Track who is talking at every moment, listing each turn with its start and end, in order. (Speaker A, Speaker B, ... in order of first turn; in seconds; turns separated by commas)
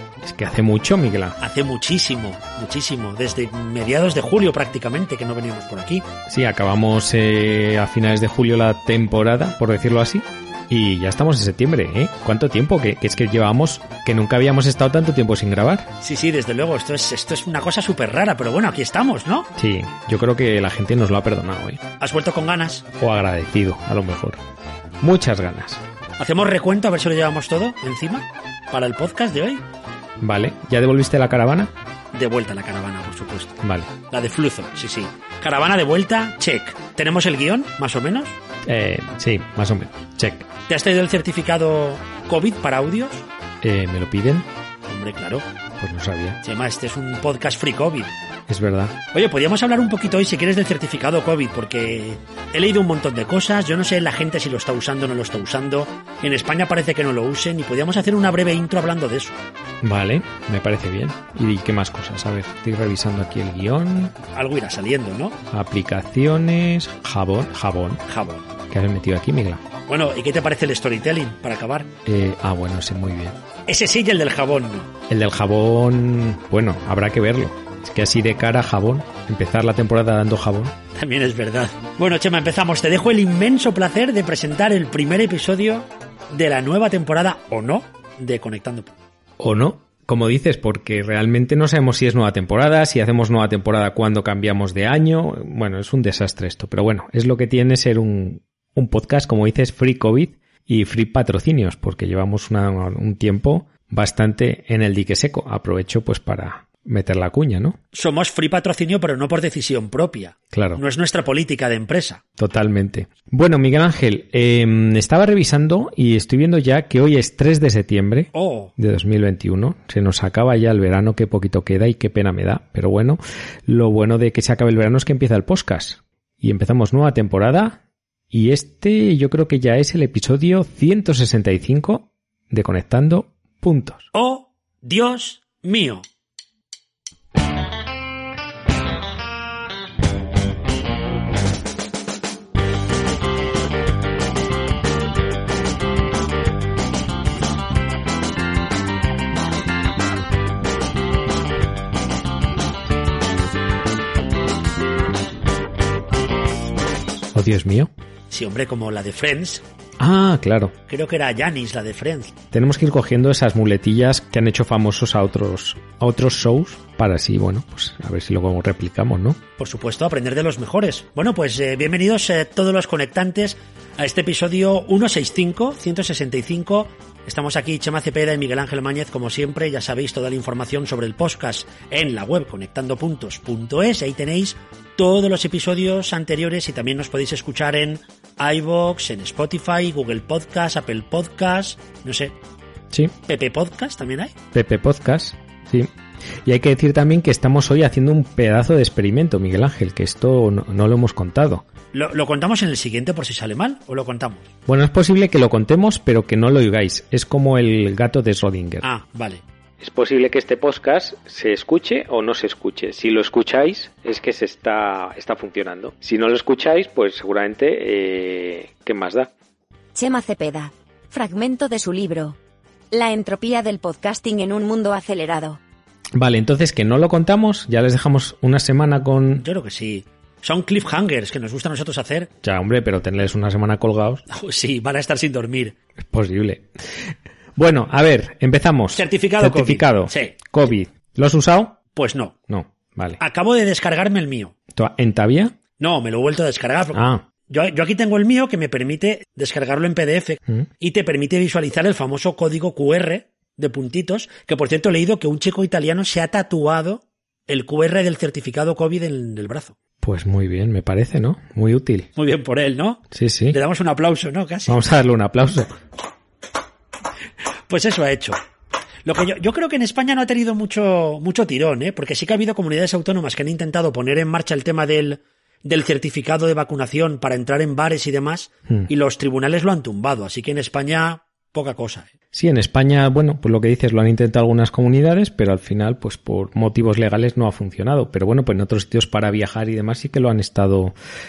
Speaker A: 0.2-1.4, Speaker B: 1.4-6.0, Speaker A: 6.3-15.9, Speaker B: 16.0-19.5, Speaker A: 19.6-21.8, Speaker B: 22.0-22.9, Speaker A: 23.0-24.4, Speaker A: 25.0-25.8, Speaker B: 26.2-29.6, Speaker A: 30.2-31.7, Speaker B: 32.1-38.4, Speaker A: 33.6-33.9, Speaker A: 38.6-40.5, Speaker B: 40.7-43.3, Speaker A: 43.6-44.5, Speaker B: 44.9-45.5, Speaker A: 45.8-46.4, Speaker B: 46.4-48.1, Speaker A: 48.5-49.0, Speaker B: 49.1-59.4, Speaker A: 59.8-64.2, Speaker B: 64.3-65.4, Speaker A: 65.5-68.0, Speaker B: 68.1-68.5, Speaker A: 68.7-69.6, Speaker B: 69.9-71.9, Speaker A: 72.0-73.4, Speaker B: 73.7-74.9, Speaker A: 75.1-80.8, Speaker B: 81.0-89.0, Speaker A: 89.4-107.8, Speaker B: 107.9-112.2, Speaker A: 110.5-110.8, Speaker A: 112.4-134.1, Speaker B: 118.3-118.7, Speaker B: 134.1-136.1, Speaker A: 157.3-157.9, Speaker B: 158.3-159.6, Speaker A: 160.0-160.8, Speaker B: 160.9-162.4, Speaker A: 162.5-169.4, Speaker B: 169.6-192.3, Speaker B: 193.3-194.3, Speaker A: 194.5-195.9, Speaker A: 196.4-201.7, Speaker B: 201.9-204.5, Speaker A: 204.7-208.9, Speaker B: 208.8-209.4, Speaker A: 209.8-219.3, Speaker C: 219.9-222.4, Speaker C: 222.9-225.6, Speaker A: 226.2-229.4, Speaker B: 229.4-232.3, Speaker A: 232.4-234.2, Speaker B: 234.3-235.8, Speaker A: 236.0-241.8, Speaker B: 238.9-240.3, Speaker B: 241.9-242.3, Speaker A: 242.5-243.2, Speaker B: 243.2-244.6, Speaker A: 244.7-245.6, Speaker B: 245.8-259.8, Speaker A: 246.9-247.2, Speaker A: 260.0-262.1, Speaker B: 262.2-264.8, Speaker A: 263.1-263.6, Speaker A: 264.7-265.8, Speaker B: 267.7-268.4, Speaker B: 269.1-282.1, Speaker A: 282.3-290.9